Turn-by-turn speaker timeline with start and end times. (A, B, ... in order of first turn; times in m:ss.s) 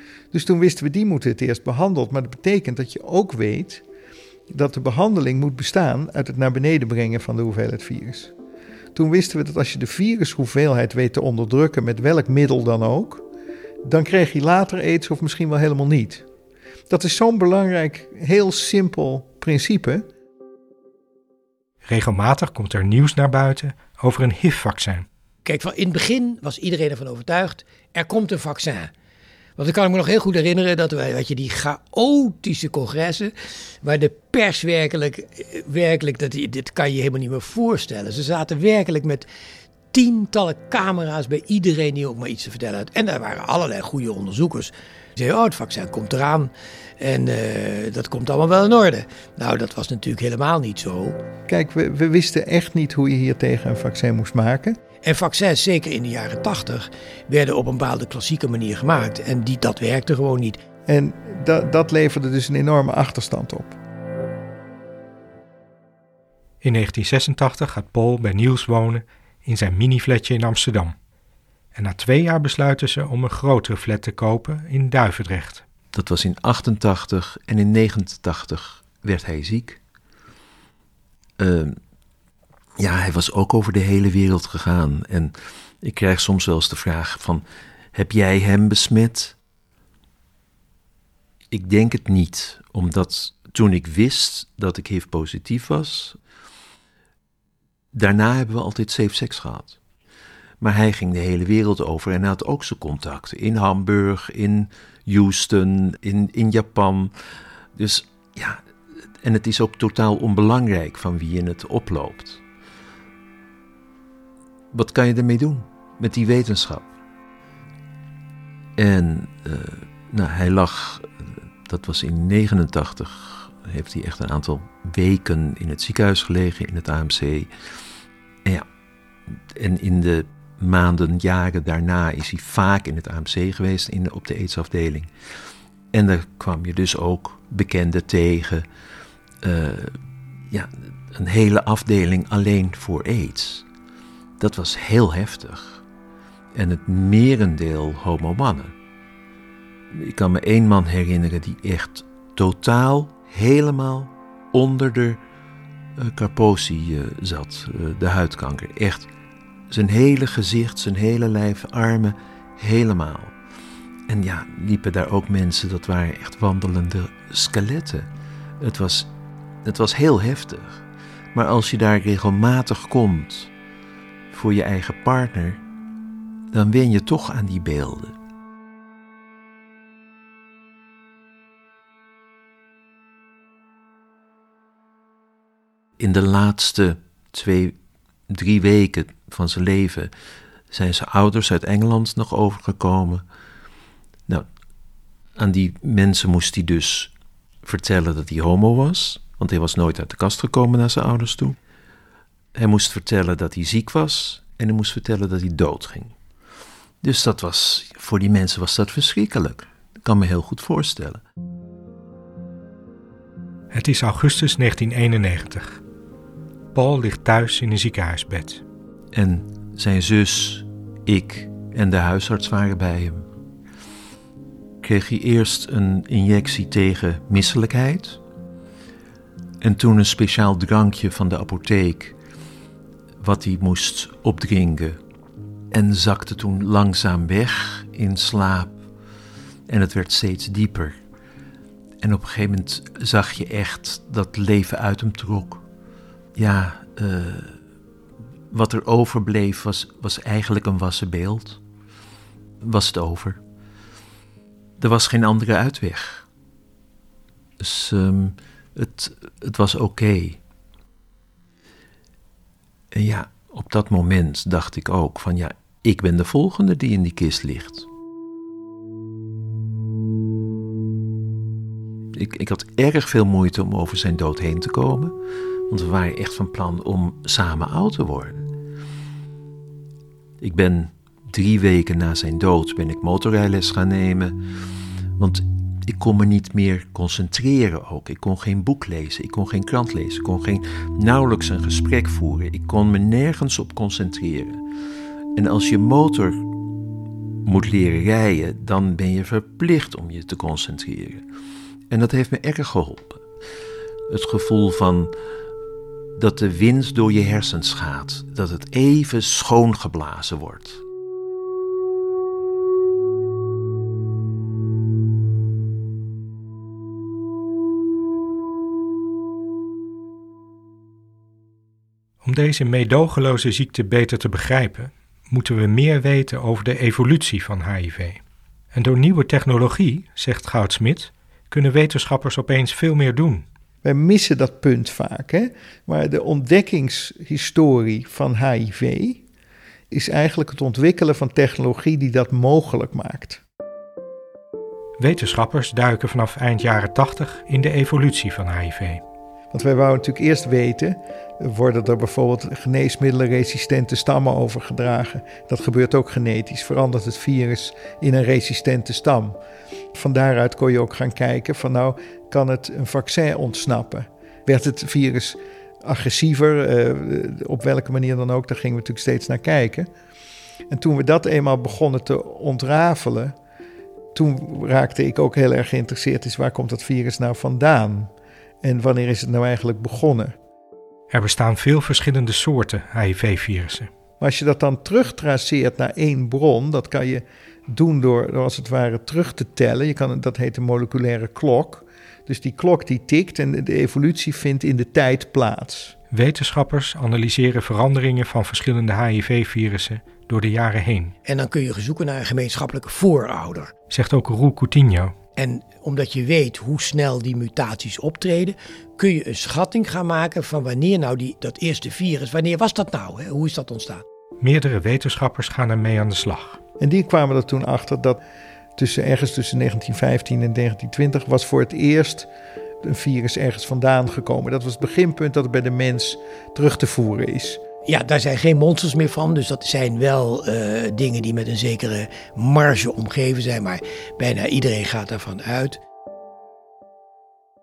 0:00.3-0:03.8 A
0:04.5-0:08.3 A
0:08.9-0:13.2 A
0:13.8-0:16.2 A
0:16.9-0:20.0 A
0:21.8-0:25.0 B
0:25.4-0:28.9 C
0:29.6-0:39.2 C
0:39.9-0:51.2 C
0:51.5-0:54.8 A
0:55.0-1:00.6 C
1:00.9-1:03.8 A
1:06.6-1:10.9 B
1:11.7-1:15.6 B
1:15.9-1:19.8 D
1:21.4-1:21.8 D
1:22.8-1:29.4 D
1:31.5-1:36.2 D
1:37.9-1:39.8 D
1:40.6-1:47.1 D
1:47.8-1:48.6 D
1:49.2-1:52.4 D
1:54.7-1:56.9 D
1:58.8-2:01.1 D
2:01.6-2:07.5 D
2:09.5-2:15.1 D
2:15.9-2:18.6 D
2:19.4-2:19.9 D
2:20.5-2:23.6 D
2:24.4-2:25.8 D
2:26.5-2:28.7 D
2:29.9-2:35.2 D
2:36.0-2:39.1 D
2:39.7-2:43.3 D
2:44.1-2:48.1 D
2:48.6-2:49.1 D
2:49.6-2:50.8 D
2:51.3-2:53.5 D
2:54.3-2:55.6 D
2:56.5-2:58.1 D
3:06.0-3:07.8 D
3:08.3-3:10.1 D
3:10.7-3:13.2 D
3:15.4-3:17.1 D
3:17.6-3:21.6 D
3:22.5-3:26.1 D
3:27.0-3:31.2 D
3:33.7-3:35.8 B
3:36.7-3:38.6 B
3:39.1-3:43.2 D
3:44.8-3:48.2 D
3:49.6-3:52.2 D
3:53.2-3:55.0 D
3:55.7-3:58.8 D
3:59.7-4:01.0 D
4:02.0-4:05.6 D
4:06.4-4:07.6 D
4:08.5-4:11.6 D
4:12.6-4:13.4 D
4:14.8-4:16.2 D
4:17.6-4:20.4 D
4:22.9-4:27.8 D
4:32.1-4:35.1 D
4:35.7-4:38.4 D
4:40.4-4:44.4 D
4:45.2-4:54.6 D
4:55.3-4:56.5 D
4:57.4-5:01.2 D
5:01.9-5:03.2 D
5:04.1-5:05.1 D
5:06.2-5:10.8 D
5:22.2-5:28.2 B
5:28.7-5:33.4 B
5:33.8-5:39.2 A
5:39.9-5:43.4 A
5:45.0-5:49.0 B
5:49.5-5:59.4 A
5:59.9-6:09.9 A
6:10.7-6:13.4 A
6:14.1-6:18.1 A
6:18.6-6:20.4 A
6:21.1-6:23.9 B
6:24.2-6:35.9 A
6:36.1-6:41.1 B
6:41.2-6:43.7 C
6:43.9-6:45.1 B
6:45.4-6:54.0 C
6:54.4-6:56.6 B
6:56.8-6:58.2 A
6:58.8-7:02.3 A
7:02.8-7:07.6 A
7:07.8-7:15.8 C